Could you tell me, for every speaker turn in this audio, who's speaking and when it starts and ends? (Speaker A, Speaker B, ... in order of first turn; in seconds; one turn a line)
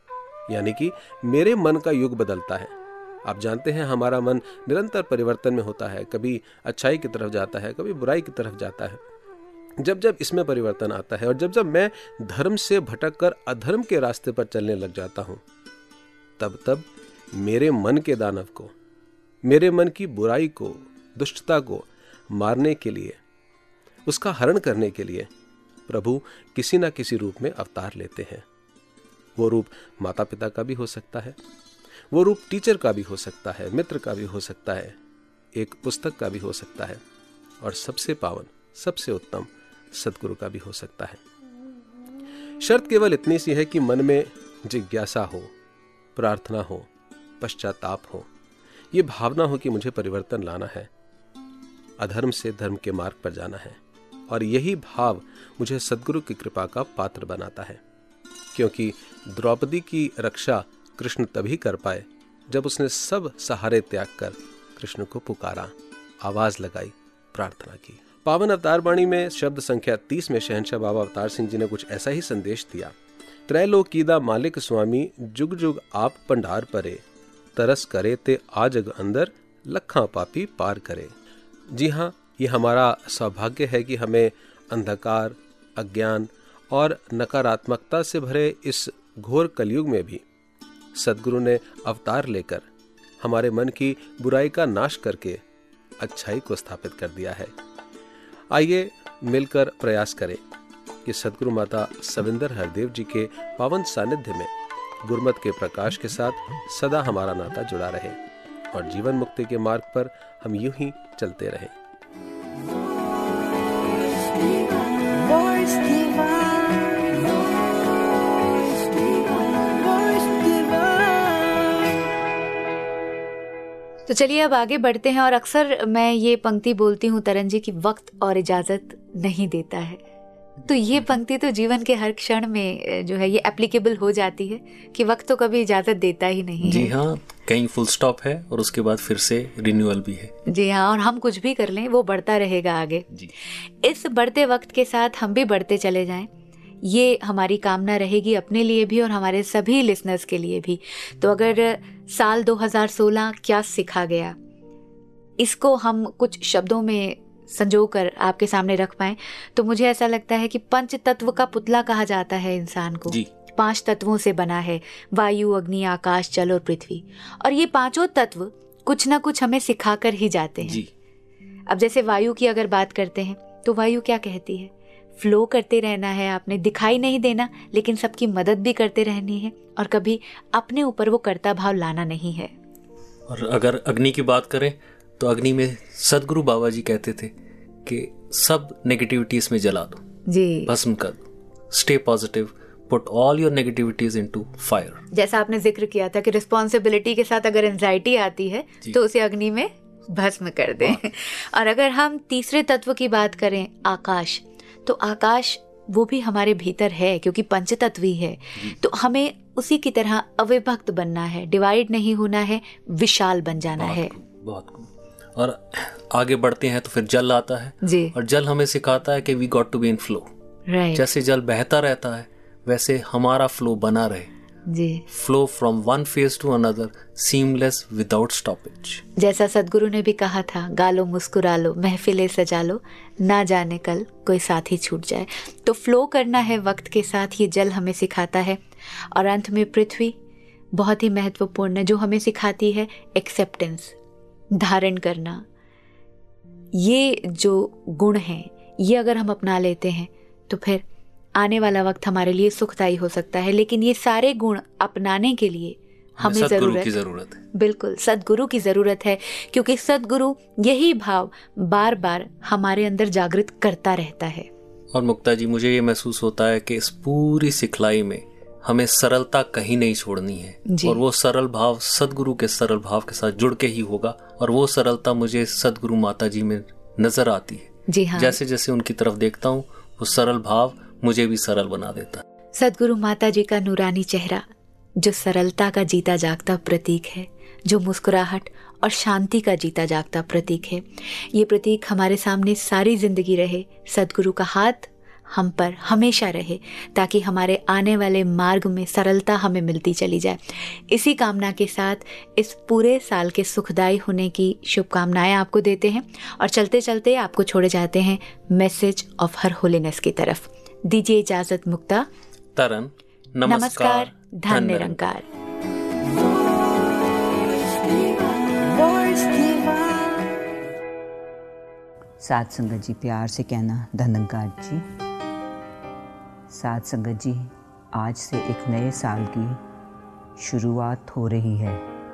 Speaker A: 0.5-2.7
Speaker A: 3.2-9.0
Speaker A: 9.8-15.4
Speaker A: 16.4-18.7
Speaker A: 19.4-23.2
Speaker A: 24.1-25.3
Speaker A: 25.9-28.4
Speaker A: 29.4-31.4
Speaker A: 32.1-34.9
Speaker A: 35.5-37.0
Speaker A: 37.6-41.2
Speaker A: 42.6-45.5
Speaker A: 46.1-46.9
Speaker A: 47.4-48.2
Speaker A: 48.9-50.9
Speaker A: 52.0-57.8
Speaker A: 58.5-72.9
Speaker A: 73.5-77.0
Speaker A: 77.5-81.1
Speaker A: 81.7-90.2
Speaker A: 90.9-92.7
Speaker A: 93.2-95.4
Speaker A: 96.0-97.5
Speaker A: 98.5-100.4
Speaker A: 101.0-104.5
Speaker A: 105.0-108.2
Speaker A: 108.7-111.7
Speaker B: 124.1-130.0
Speaker B: 130.6-136.9
Speaker C: 136.6-140.3
Speaker B: 140.5-146.3
Speaker B: 146.8-154.3
Speaker B: 155.4-170.8
Speaker B: 171.7-182.5
Speaker C: 183.3-187.3
Speaker C: 187.8-190.0
Speaker B: 190.3-190.7
Speaker C: 190.7-195.0
Speaker B: 195.1-214.1
Speaker C: 213.8-220.3
Speaker B: 217.8-218.1
Speaker B: 220.7-221.0
Speaker C: 220.9-224.3
Speaker B: 224.7-225.0
Speaker C: 225.1-229.0
Speaker B: 229.2-238.6
Speaker B: 239.1-240.1
Speaker B: 240.7-243.9
Speaker B: 244.5-245.4
Speaker B: 246.7-250.8
Speaker B: 251.3-256.9
Speaker C: 256.2-257.4
Speaker B: 257.5-264.5
Speaker C: 264.9-282.2
Speaker B: 270.7-271.0
Speaker B: 277.9-278.4
Speaker B: 282.5-284.4
Speaker B: 285.0-312.1
Speaker C: 312.6-314.9
Speaker B: 313.5-315.2
Speaker D: 322.2-324.8
Speaker D: 326.5-329.6
Speaker D: 330.4-331.8